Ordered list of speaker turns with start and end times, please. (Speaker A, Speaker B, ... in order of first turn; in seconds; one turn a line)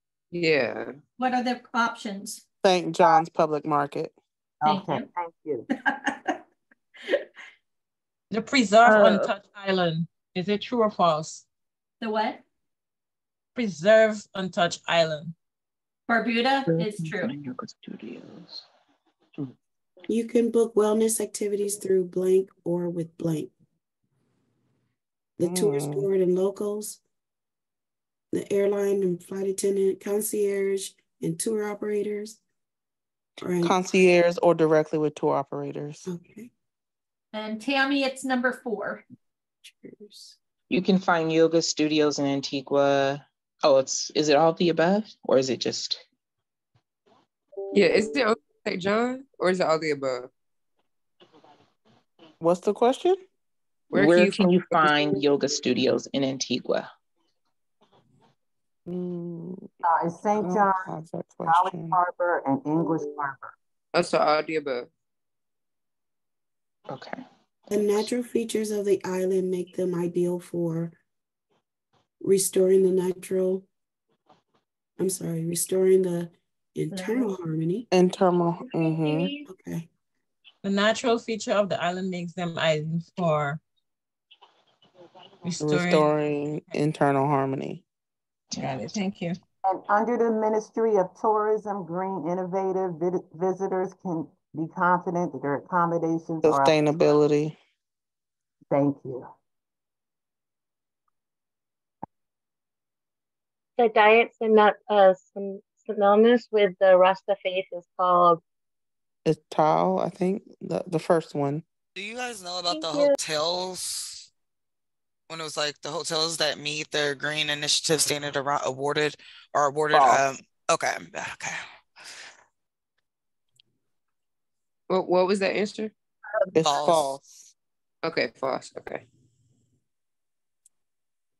Speaker A: 0.3-0.9
Speaker B: 1.2-2.4
Speaker C: 2.6-4.1
Speaker D: 4.6-5.7
Speaker B: 4.7-5.0
Speaker B: 5.8-6.4
Speaker E: 8.3-11.4
Speaker B: 12.0-12.4
Speaker E: 13.6-15.3
Speaker B: 16.1-17.3
Speaker F: 16.7-18.6
Speaker G: 20.1-23.5
Speaker G: 25.4-27.0
Speaker C: 25.4-26.1
Speaker G: 28.3-32.4
Speaker G: 33.4-33.8
Speaker C: 33.6-36.1
Speaker G: 36.0-36.5
Speaker B: 37.3-39.0
Speaker F: 40.7-46.0
Speaker A: 47.7-50.3
Speaker C: 52.4-53.2
Speaker A: 53.9-55.2
Speaker F: 53.9-56.9
Speaker C: 58.9-59.7
Speaker D: 59.8-60.9
Speaker C: 60.4-62.0
Speaker D: 61.4-63.5
Speaker A: 63.9-64.9
Speaker F: 66.9-67.2
Speaker G: 67.7-70.9
Speaker G: 72.2-73.6
Speaker G: 75.0-77.8
Speaker B: 76.9-77.3
Speaker C: 77.9-79.4
Speaker B: 79.0-79.3
Speaker G: 79.4-79.9
Speaker E: 80.6-83.6
Speaker E: 85.4-86.1
Speaker C: 85.6-87.8
Speaker F: 88.5-89.0
Speaker E: 88.5-89.4
Speaker D: 89.6-97.2
Speaker C: 96.4-97.5
Speaker D: 98.7-99.3
Speaker H: 103.8-108.4
Speaker C: 109.2-111.6
Speaker I: 112.0-114.3
Speaker H: 112.7-113.0
Speaker I: 115.3-121.6
Speaker A: 124.9-125.9
Speaker C: 126.6-127.4
Speaker I: 126.6-127.1
Speaker A: 128.0-129.0